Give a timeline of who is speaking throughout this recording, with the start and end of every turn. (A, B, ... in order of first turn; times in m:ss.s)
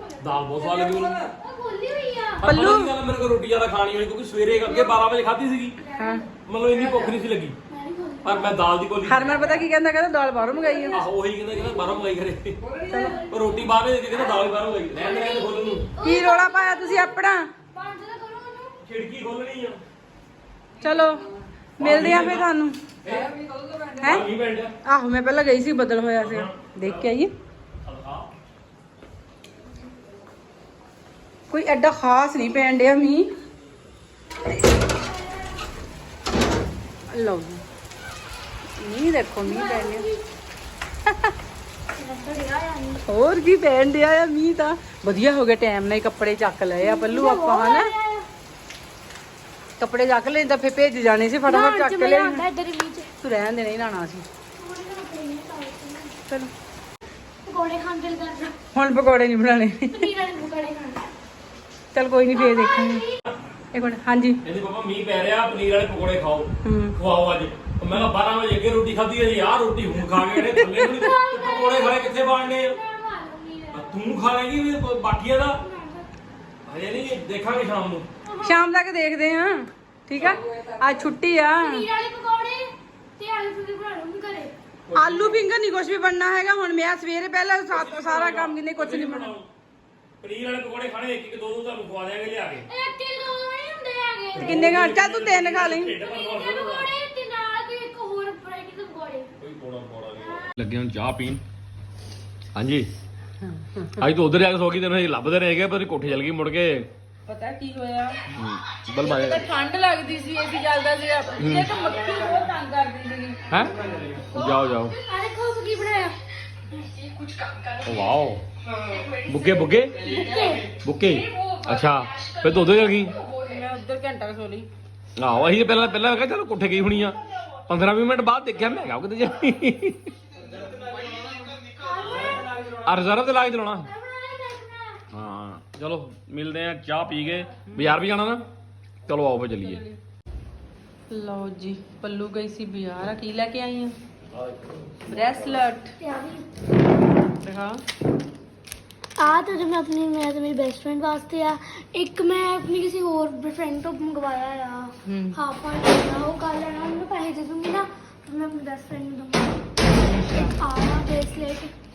0:00.2-0:01.3 A
0:00.6-0:02.5 B
0:02.4-0:05.8 A
0:02.4-0:02.9 C
0:06.0-0:06.2 C
0:06.4-0:07.6 A
0:07.7-0:08.6 B
0:08.2-0:09.6 A
0:09.0-0:11.0 C
0:10.6-0:11.0 B
0:10.9-0:12.6 A
0:11.7-0:11.9 B
0:12.9-0:13.2 C
0:12.9-0:13.6 B
0:13.3-0:15.9 A
0:15.0-0:17.2 B
0:16.0-0:17.5 C
0:17.7-0:18.8 B
0:18.8-0:19.8 A
0:20.8-0:21.2 C
0:21.8-0:22.5 A
0:21.8-0:22.8 C
0:23.0-0:23.3 A
0:24.0-0:24.3 C
0:24.0-0:24.7 A
0:24.8-0:27.3 C
0:26.2-0:27.0 A
0:27.8-0:28.3 A
0:31.5-0:33.3 C
0:34.9-0:35.5 B
0:37.1-0:37.6 C
0:38.8-0:40.1 C
0:39.4-0:40.2 B
0:41.9-0:43.0 B
0:43.0-0:47.9 C
0:46.8-0:48.3 B
0:49.8-0:52.4 C
0:51.4-0:53.1 B
0:53.2-0:54.2 C
0:54.6-0:56.2 B
0:57.4-0:58.5 B
0:58.7-1:00.1 C
0:59.9-1:01.1 B
1:01.9-1:03.0 C
1:02.3-1:03.2 B
1:03.7-1:04.4 C
1:04.4-1:12.8 A
1:06.6-1:07.0 C
1:10.2-1:11.0 C
1:11.0-1:13.9 B
1:13.7-1:15.6 A
1:15.6-1:16.0 B
1:16.6-1:18.1 A
1:18.2-1:18.6 B
1:18.4-1:21.9 C
1:21.6-1:24.5 B
1:24.9-1:25.4 A
1:24.9-1:29.3 C
1:27.7-1:29.5 A
1:30.2-1:32.7 A
1:32.7-1:34.8 B
1:34.3-1:36.9 A
1:34.4-1:35.9 C
1:36.0-1:39.3 B
1:39.4-1:41.4 A
1:42.5-1:42.9 A
1:44.0-1:46.9 A
1:47.2-1:48.2 C
1:48.3-1:49.5 A
1:49.0-1:53.4 C
1:51.4-1:51.7 A
1:53.5-1:55.0 A
1:54.3-1:56.2 B
1:57.8-1:58.4 A
1:59.2-2:00.1 A
2:00.2-2:00.7 B
2:00.6-2:03.2 A
2:03.3-2:04.7 C
2:05.2-2:10.1 A
2:11.8-2:12.6 B
2:12.1-2:13.9 A
2:13.8-2:15.0 B
2:15.1-2:18.4 A
2:19.1-2:19.8 A
2:19.6-2:20.0 C
2:21.1-2:24.0 C
2:24.3-2:25.6 A
2:25.1-2:25.9 C
2:26.0-2:26.5 B
2:27.4-2:27.8 C
2:29.2-2:39.6 B
2:35.0-2:35.4 C
2:40.0-2:40.5 C
2:40.5-2:41.7 B